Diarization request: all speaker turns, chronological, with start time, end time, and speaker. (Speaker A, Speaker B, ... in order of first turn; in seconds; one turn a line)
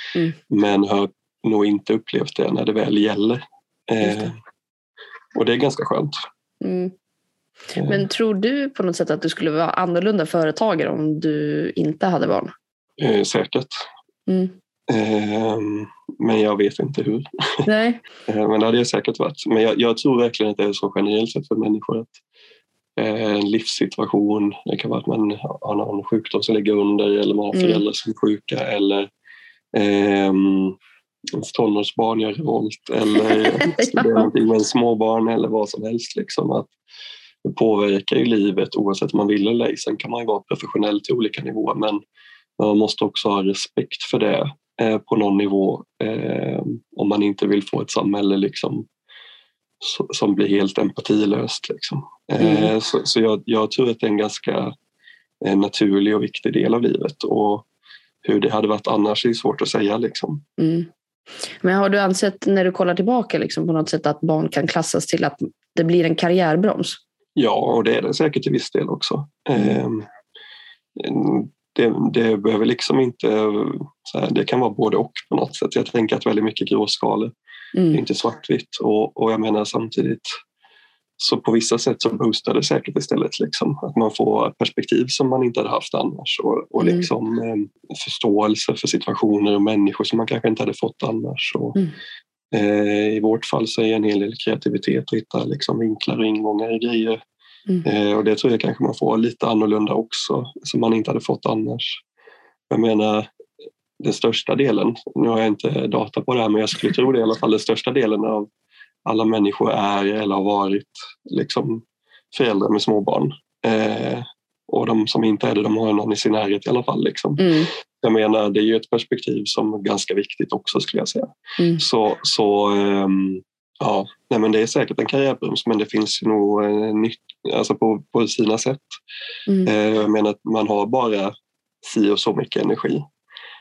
Speaker A: 0.5-4.3
Speaker B: 4.0-4.3
Speaker A: 5.3-6.2
Speaker B: 6.6-6.9
Speaker A: 7.8-8.0
Speaker B: 7.8-12.5
Speaker A: 13.0-13.8
Speaker B: 14.3-14.5
Speaker A: 14.9-17.7
Speaker B: 17.7-18.0
Speaker A: 18.3-22.2
Speaker A: 23.0-29.1
Speaker B: 27.5-27.8
Speaker A: 29.7-30.8
Speaker A: 31.4-36.7
Speaker B: 33.1-34.3
Speaker A: 37.4-42.0
Speaker A: 42.6-48.9
Speaker A: 49.8-54.7
Speaker B: 52.4-52.7
Speaker A: 55.4-57.7
Speaker A: 58.2-60.4
Speaker B: 60.6-60.9
Speaker B: 61.6-67.0
Speaker A: 67.4-70.1
Speaker A: 71.0-77.3
Speaker B: 77.8-78.0
Speaker A: 77.9-80.3
Speaker A: 81.2-91.8
Speaker B: 86.8-87.1
Speaker A: 92.5-97.2
Speaker A: 97.8-102.0
Speaker A: 102.7-103.3
Speaker A: 104.0-108.5
Speaker A: 109.1-117.5
Speaker B: 117.4-117.7
Speaker A: 118.0-129.0
Speaker A: 129.7-133.0